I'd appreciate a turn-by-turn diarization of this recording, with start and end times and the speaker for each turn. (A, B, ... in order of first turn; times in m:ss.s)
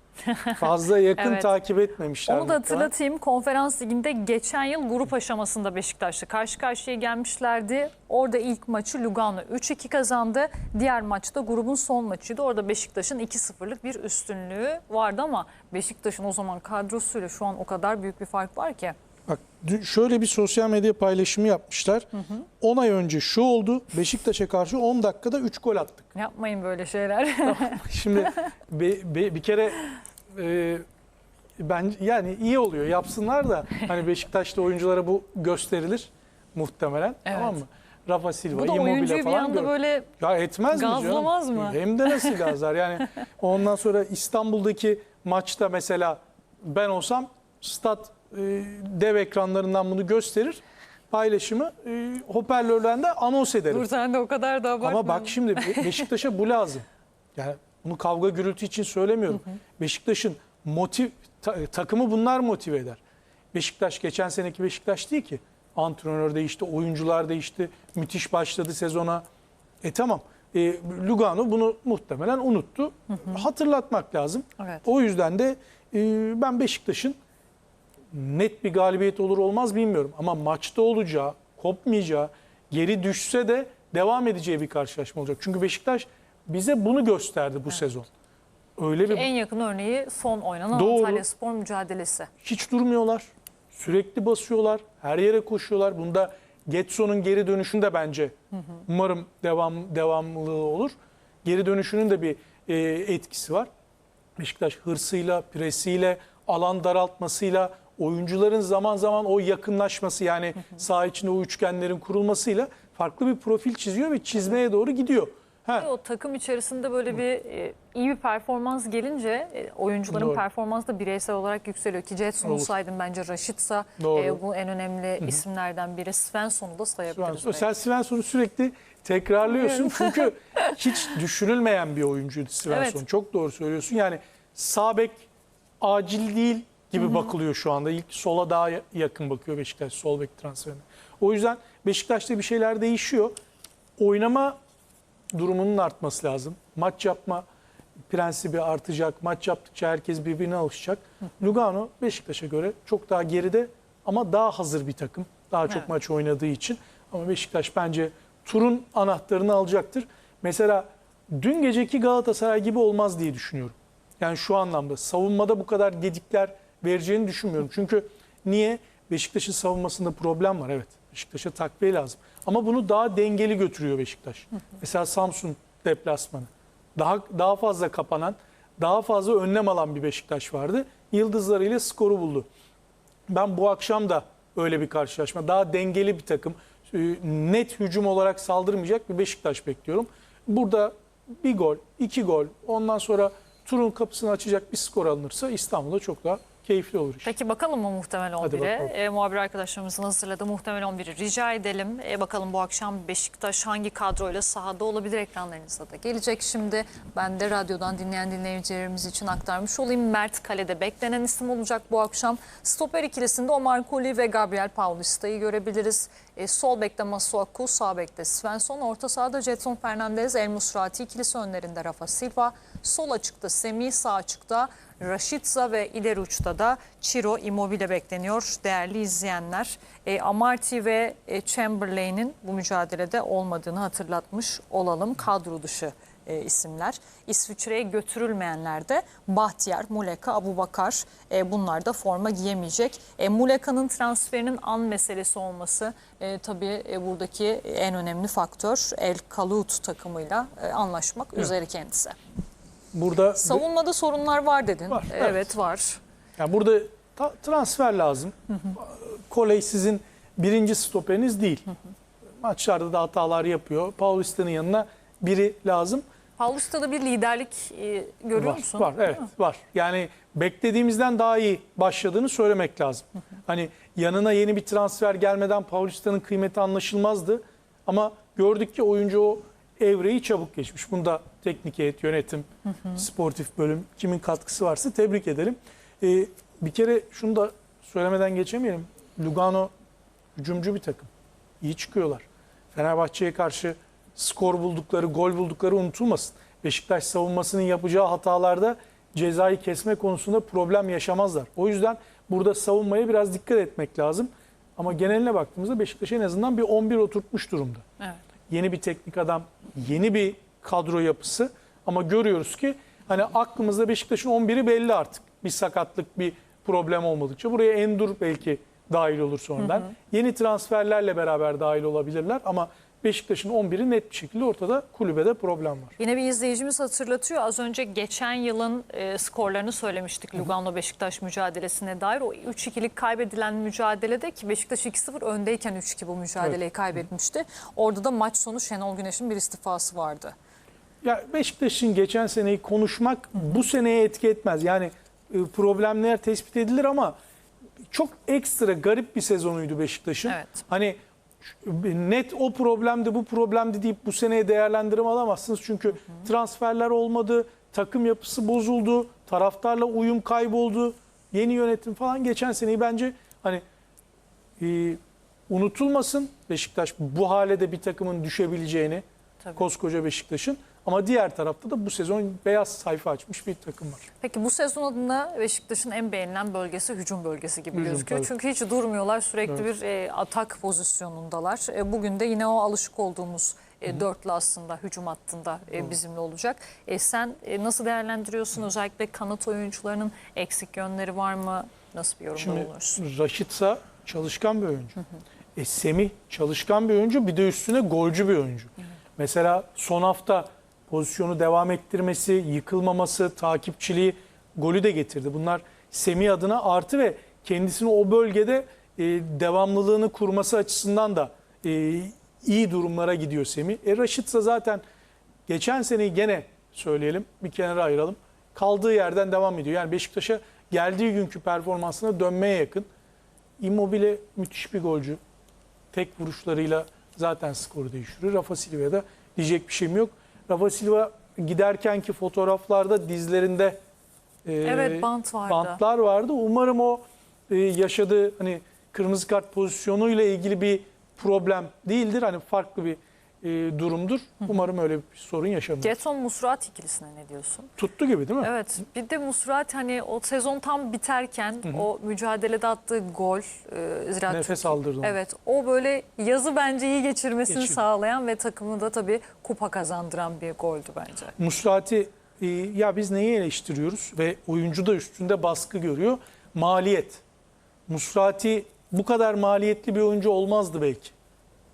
0:00.2-0:01.5 A
0:00.6-0:02.9 B
0:02.3-0:18.9 A
0:19.3-0:26.1 B
0:26.1-0:28.4 A
0:27.4-0:30.8 B
0:31.6-0:53.8 B
0:37.3-0:37.6 A
0:38.5-0:40.1 A
0:40.7-0:42.5 A
0:53.7-0:56.0 A
0:54.8-1:03.0 B
1:03.5-1:09.2 B
1:09.8-1:17.2 B
1:13.1-1:13.4 A
1:14.6-1:14.8 A
1:18.1-1:28.1 B
1:28.8-1:29.3 B
1:29.0-1:32.3 A
1:30.7-1:31.2 B
1:32.4-1:38.3 B
1:38.8-1:40.9 B
1:41.4-1:43.7 B
1:44.4-1:55.9 B
1:55.7-2:07.7 A
2:00.1-2:00.4 B
2:02.4-2:02.7 B
2:04.0-2:04.4 B
2:07.1-2:15.3 B
2:09.6-2:10.3 A
2:12.7-2:13.0 A
2:15.8-2:23.3 B
2:17.0-2:17.3 A
2:24.0-2:24.6 B
2:25.3-2:27.4 B
2:28.1-3:02.5 B
3:03.3-3:17.3 B
3:17.2-4:12.2 A
3:18.4-3:18.9 B
4:12.9-4:13.6 B
4:13.4-4:16.0 A
4:14.9-4:15.5 B
4:16.4-4:21.7 B
4:22.4-4:26.0 B
4:26.4-4:29.2 A
4:28.3-4:49.7 B
4:50.4-4:51.1 B
4:51.6-5:07.8 B
5:08.5-5:26.0 B
5:19.6-5:19.9 A
5:26.0-5:40.3 A
5:41.0-5:47.1 B
5:47.9-6:03.6 B
5:50.3-5:50.6 A
6:04.6-6:09.0 B
6:09.5-6:14.1 B
6:14.2-6:33.0 A
6:17.7-6:18.3 B
6:32.4-6:35.0 B
6:35.6-6:54.8 B
6:55.5-7:02.9 B
7:03.6-7:05.2 B
7:05.9-7:13.8 B
7:14.4-7:26.0 B
7:14.6-7:15.8 A
7:25.8-7:27.7 A
7:27.8-7:28.5 B
7:28.4-7:41.3 A
7:34.3-7:35.2 B
7:37.5-7:37.8 B
7:41.4-7:47.2 B
7:47.9-7:51.1 B